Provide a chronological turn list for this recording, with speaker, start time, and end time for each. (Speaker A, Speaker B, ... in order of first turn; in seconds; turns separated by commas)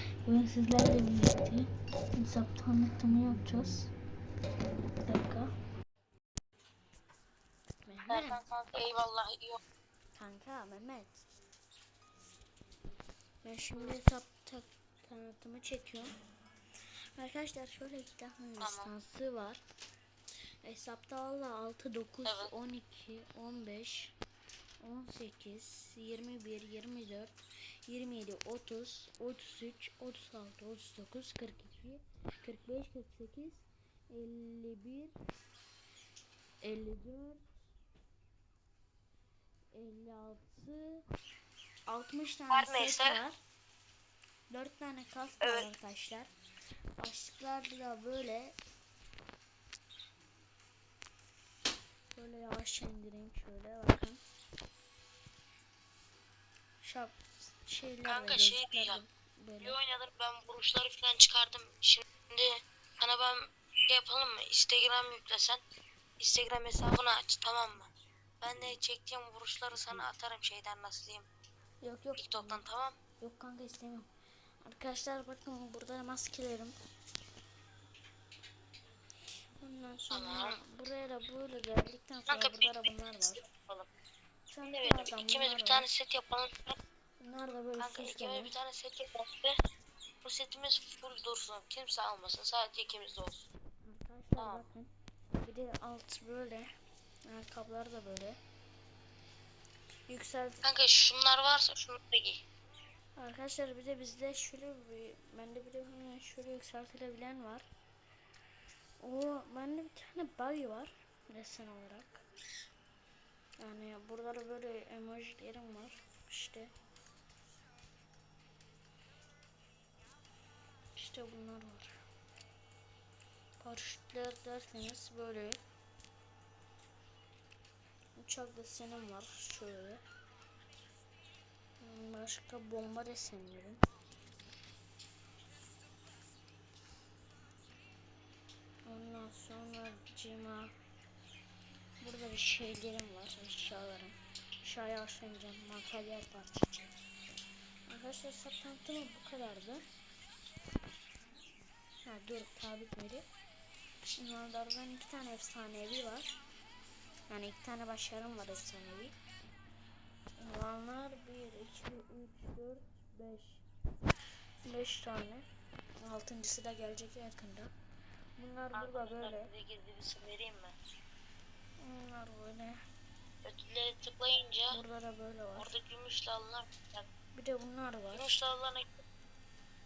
Speaker A: 0.2-3.9, Speaker A: 5.0-5.5, Speaker A: 7.9-8.4, Speaker B: 8.1-9.6, Speaker A: 10.2-11.2, Speaker A: 13.4-16.1, Speaker A: 17.2-19.6, Speaker B: 18.6-18.9, Speaker A: 20.6-24.1, Speaker B: 22.2-22.5, Speaker A: 24.8-27.4, Speaker A: 27.9-35.1, Speaker A: 36.6-37.5, Speaker A: 39.7-41.0, Speaker A: 41.9-43.4, Speaker B: 42.5-43.2, Speaker A: 44.5-46.3, Speaker B: 45.4-45.7, Speaker A: 47.0-48.6, Speaker A: 52.1-54.2, Speaker A: 56.8-59.8, Speaker B: 58.1-59.0, Speaker B: 59.6-65.6, Speaker B: 66.2-67.9, Speaker B: 68.4-71.3, Speaker A: 71.8-72.6, Speaker B: 72.2-73.0, Speaker A: 73.2-74.1, Speaker A: 74.6-76.7, Speaker A: 79.6-83.4, Speaker B: 80.1-80.5, Speaker B: 82.3-82.7, Speaker B: 83.4-83.9, Speaker A: 84.5-85.8, Speaker B: 84.6-86.7, Speaker A: 87.2-88.5, Speaker B: 87.8-89.5, Speaker B: 90.2-93.5, Speaker A: 93.8-94.9, Speaker B: 94.4-94.6, Speaker A: 95.4-96.7, Speaker A: 97.3-98.4, Speaker A: 100.1-100.6, Speaker B: 100.6-102.4, Speaker A: 103.2-107.7, Speaker A: 109.0-112.2, Speaker A: 113.6-116.7, Speaker A: 121.0-121.9, Speaker A: 123.6-125.6, Speaker A: 128.2-130.0, Speaker A: 131.8-133.8, Speaker A: 138.9-140.7, Speaker A: 142.0-146.9, Speaker A: 147.9-149.8, Speaker A: 152.1-153.2, Speaker A: 154.2-156.3, Speaker A: 157.3-159.2, Speaker A: 160.4-163.7, Speaker A: 164.7-165.5, Speaker A: 166.0-167.7, Speaker A: 168.4-169.5, Speaker B: 168.7-170.8, Speaker A: 171.8-172.8, Speaker B: 173.4-174.8, Speaker A: 174.7-175.7, Speaker B: 175.6-177.1, Speaker A: 177.3-178.3, Speaker B: 178.1-178.9